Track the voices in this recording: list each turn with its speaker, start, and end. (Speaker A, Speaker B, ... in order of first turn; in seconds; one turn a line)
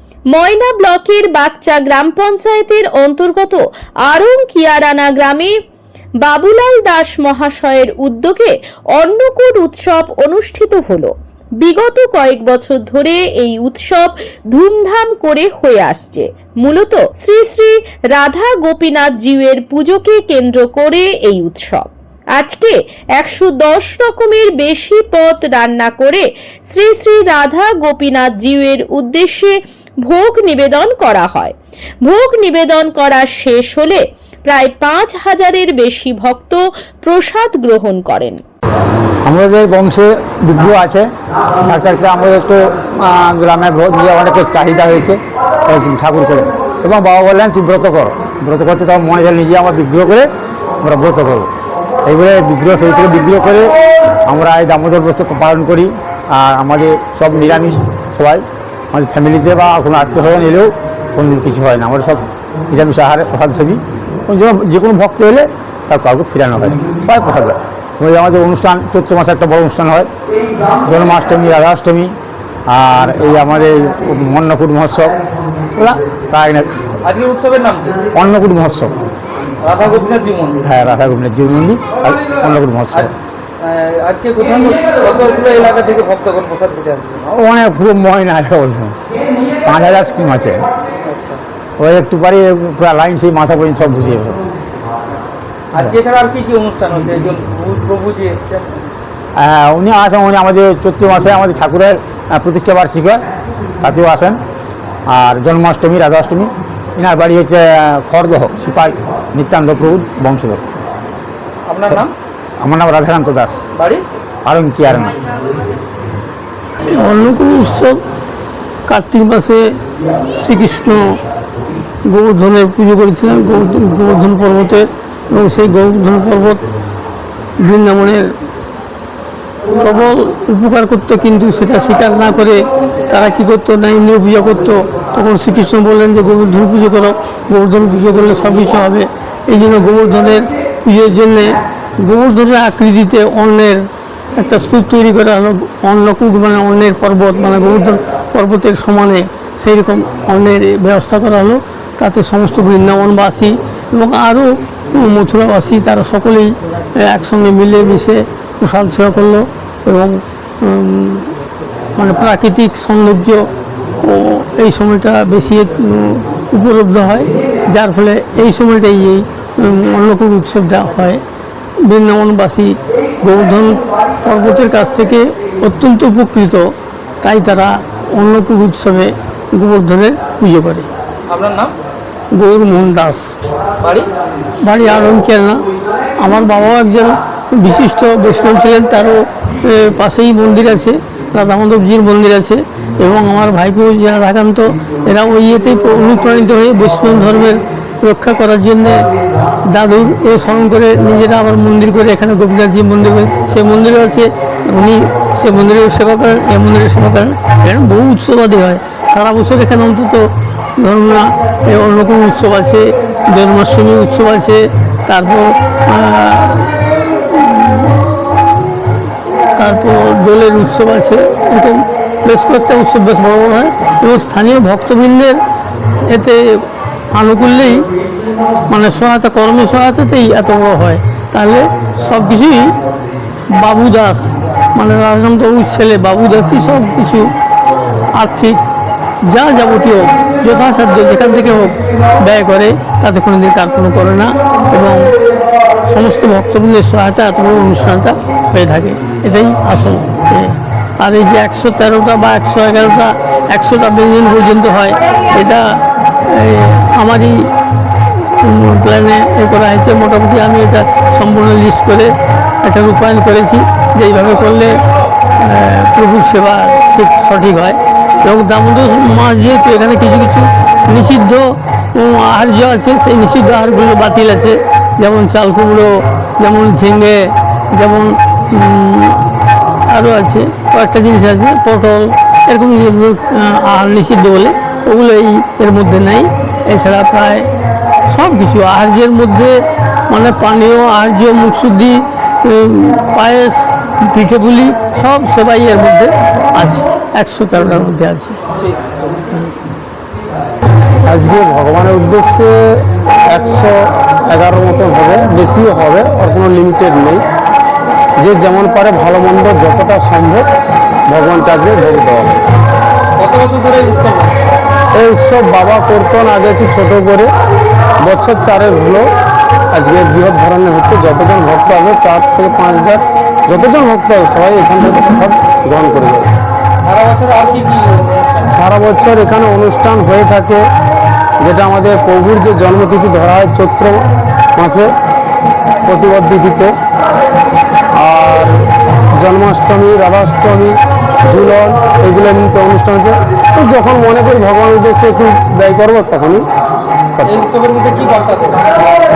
Speaker A: 0.3-5.5
Speaker A: 6.2-38.4
Speaker B: 39.2-41.1
Speaker B: 41.6-50.3
Speaker B: 50.8-51.5
Speaker B: 52.0-53.7
Speaker B: 54.3-70.1
Speaker B: 70.8-72.1
Speaker B: 72.7-75.2
Speaker B: 75.8-76.7
Speaker C: 77.0-78.0
Speaker B: 78.1-78.9
Speaker C: 79.6-80.6
Speaker B: 80.7-83.1
Speaker C: 83.6-87.2
Speaker B: 87.3-88.9
Speaker B: 89.6-90.7
Speaker C: 91.0-91.4
Speaker B: 91.8-94.4
Speaker C: 95.1-98.9
Speaker B: 99.3-103.2
Speaker B: 103.8-104.4
Speaker B: 105.1-110.7
Speaker C: 111.7-112.1
Speaker B: 112.6-113.6
Speaker C: 113.8-114.0
Speaker B: 114.5-115.2
Speaker D: 117.0-118.0
Speaker D: 118.9-119.6
Speaker D: 120.4-121.2
Speaker D: 122.1-126.6
Speaker D: 127.6-128.3
Speaker D: 129.8-141.5
Speaker D: 142.0-143.8
Speaker D: 144.4-161.3
Speaker D: 161.9-163.5
Speaker D: 164.0-171.2
Speaker D: 171.8-176.7
Speaker D: 177.2-180.9
Speaker C: 181.3-181.7
Speaker D: 182.3-183.3
Speaker C: 183.8-184.1
Speaker D: 184.6-185.6
Speaker D: 186.2-199.0
Speaker D: 199.7-210.2
Speaker D: 210.8-216.6
Speaker D: 217.3-217.9
Speaker D: 219.6-225.4
Speaker D: 226.1-226.4
Speaker D: 227.1-227.9
Speaker D: 228.7-232.7
Speaker D: 233.5-237.3
Speaker D: 238.2-238.6
Speaker D: 239.3-245.1
Speaker D: 245.9-255.6
Speaker D: 256.3-257.4
Speaker D: 258.4-262.1
Speaker D: 262.6-264.8
Speaker D: 265.4-275.9
Speaker D: 276.4-287.5
Speaker D: 288.1-289.6
Speaker D: 290.1-298.4
Speaker C: 298.6-299.2
Speaker E: 301.1-302.5
Speaker E: 303.3-307.2
Speaker E: 308.2-310.4
Speaker E: 311.1-312.4
Speaker C: 313.2-314.3
Speaker E: 314.9-317.3
Speaker E: 318.0-319.0
Speaker E: 319.7-326.3
Speaker C: 326.8-328.0
Speaker E: 328.5-330.6
Speaker E: 331.4-334.0
Speaker E: 334.6-334.9
Speaker E: 335.9-336.7
Speaker E: 337.9-338.5
Speaker E: 339.2-340.7
Speaker E: 341.2-346.4
Speaker E: 347.2-347.5
Speaker C: 347.2-348.7